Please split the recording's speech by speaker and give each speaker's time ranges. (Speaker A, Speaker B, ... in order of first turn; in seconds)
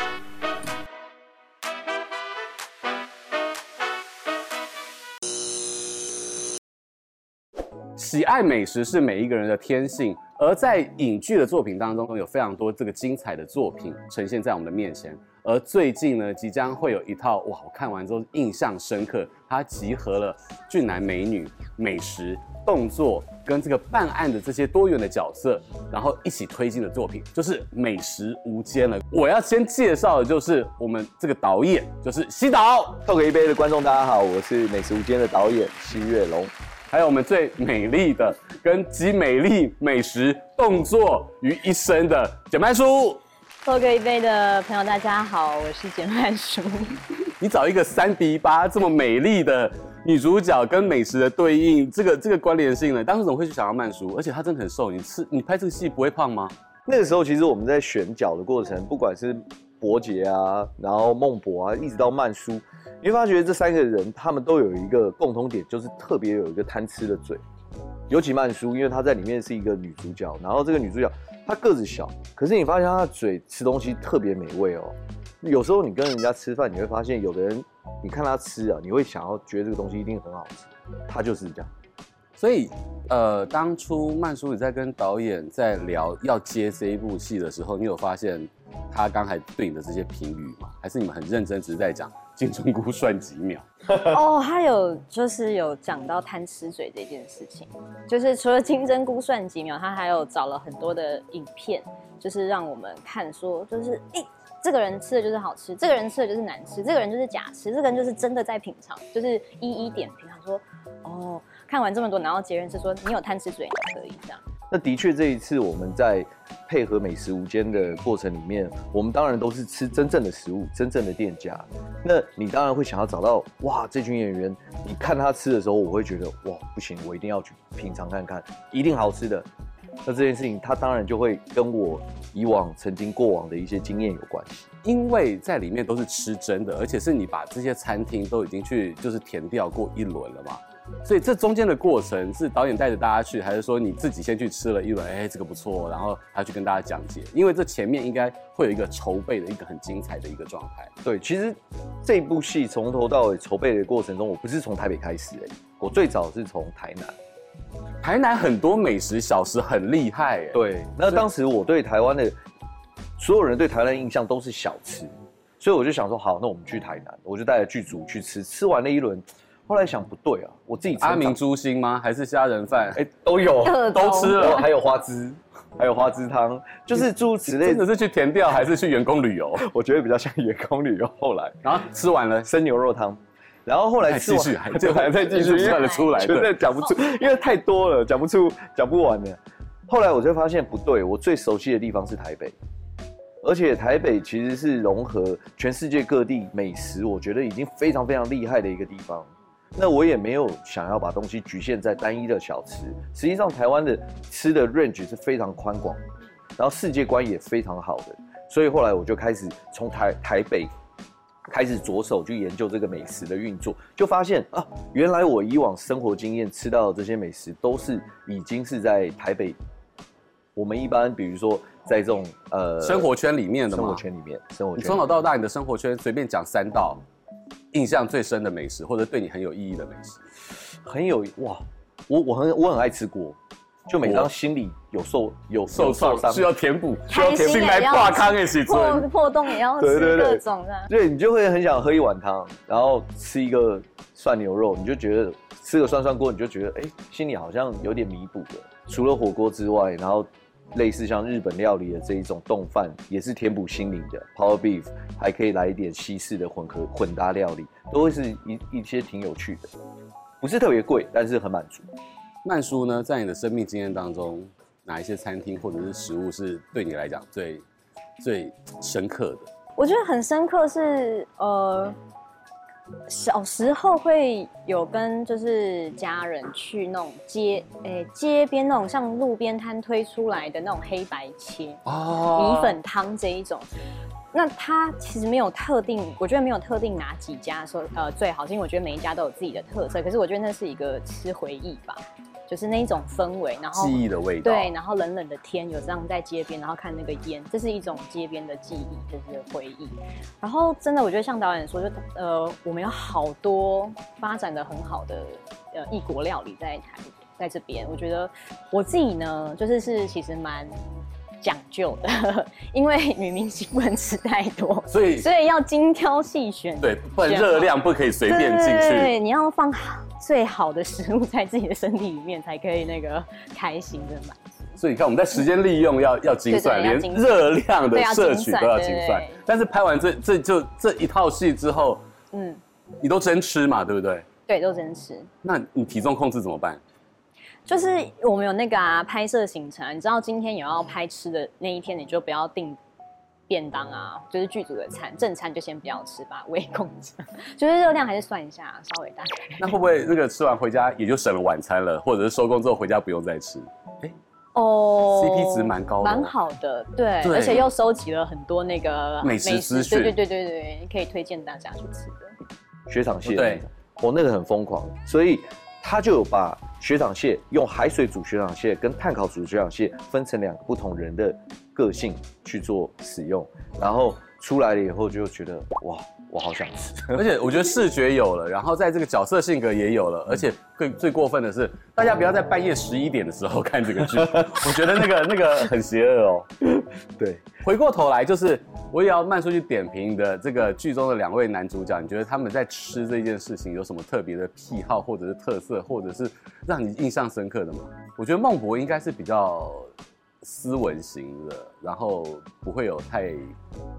Speaker A: 8.0-33.0, 36.9-43.2, 47.4-56.5, 82.4-93.7, 134.8-150.9, 158.0-161.2, 171.0-173.0, 173.8-174.7, 177.5-179.7, 181.6-182.5, 184.1-186.6, 222.8-224.0, 224.8-227.0, 227.7-230.2, 234.0-234.3, 235.7-239.1, 262.4-267.6, 268.2-269.5, 281.9-282.8, 293.7-294.7, 314.9-315.3, 316.8-319.1, 324.8-332.0, 333.0-334.3, 335.4-336.8, 349.6-354.1, 355.1-356.3, 357.2-357.7, 359.2-360.2, 363.3-363.6, 377.1-386.5, 387.6-399.9, 400.4-403.5
Speaker B: 33.1-36.5, 56.9-67.4, 68.1-81.7, 114.7-129.5, 130.1-134.7, 151.0-157.2, 160.5-162.4, 163.2-171.4, 172.9-177.9, 179.6-181.8, 182.4-192.6, 193.4-206.0, 206.6-210.7, 211.5-219.6, 220.6-223.1, 223.7-225.1, 230.8-236.5, 239.8-259.7, 260.4-261.9, 362.9-377.4, 386.7-387.5
Speaker C: 43.6-47.0, 93.9-114.4, 173.6-174.7, 185.4-186.3, 237.1-240.9, 269.8-272.0, 273.1-281.8, 282.3-283.7, 284.3-310.7, 311.4-317.7, 318.3-324.6, 326.5-329.4, 332.3-332.6, 334.5-335.3, 337.7-342.8, 343.5-349.8, 354.6-362.3